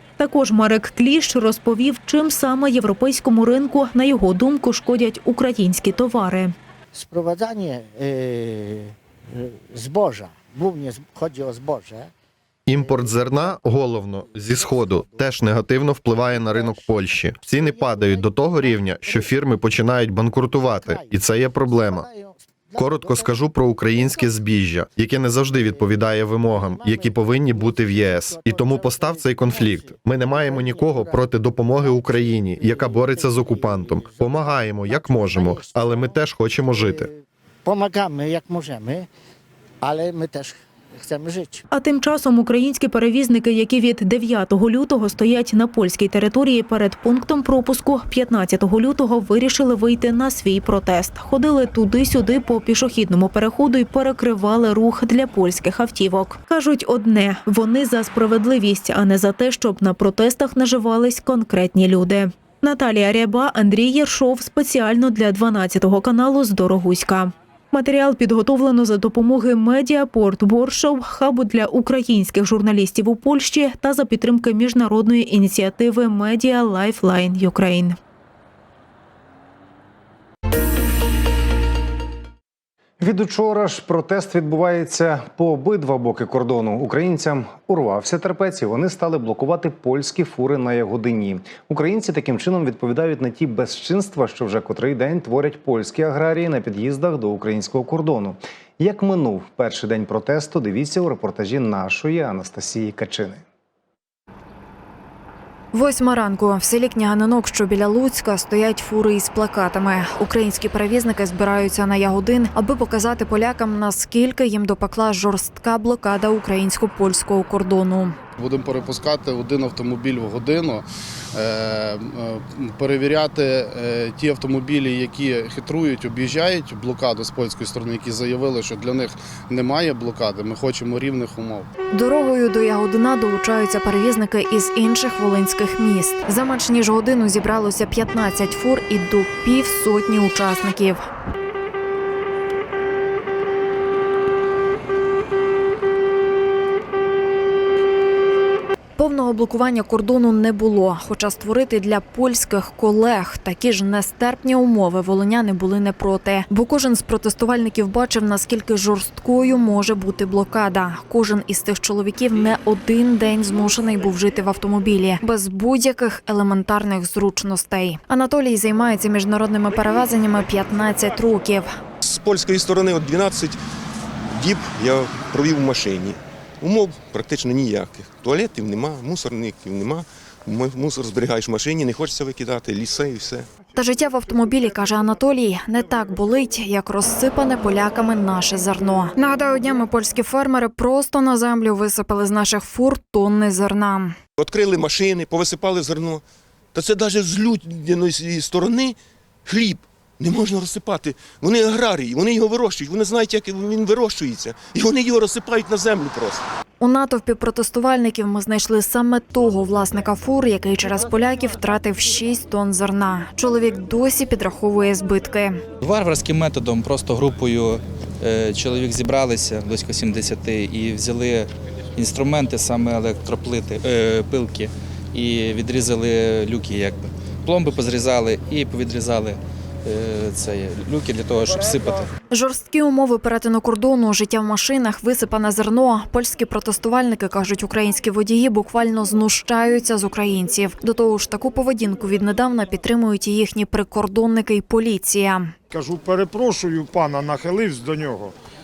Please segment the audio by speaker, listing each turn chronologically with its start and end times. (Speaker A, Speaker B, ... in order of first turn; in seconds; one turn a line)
Speaker A: 0.2-6.5
Speaker B: 6.9-12.1
Speaker C: 12.7-22.1
Speaker B: 12.7-19.6
Speaker B: 20.3-24.4
Speaker C: 22.8-37.1
Speaker B: 25.2-39.1
Speaker B: 39.8-41.6
Speaker A: 41.7-78.0
Speaker D: 83.0-103.4
Speaker E: 105.7-118.2
Speaker F: 118.4-131.7
Speaker E: 131.9-141.1
Speaker E: 149.0-171.8
Speaker G: 172.0-173.6
Speaker G: 174.3-183.5
Speaker E: 183.7-194.2
Speaker G: 194.4-206.4
Speaker E: 206.8-215.6
Speaker H: 215.8-232.1
Speaker E: 232.3-245.6
Speaker I: 245.7-248.3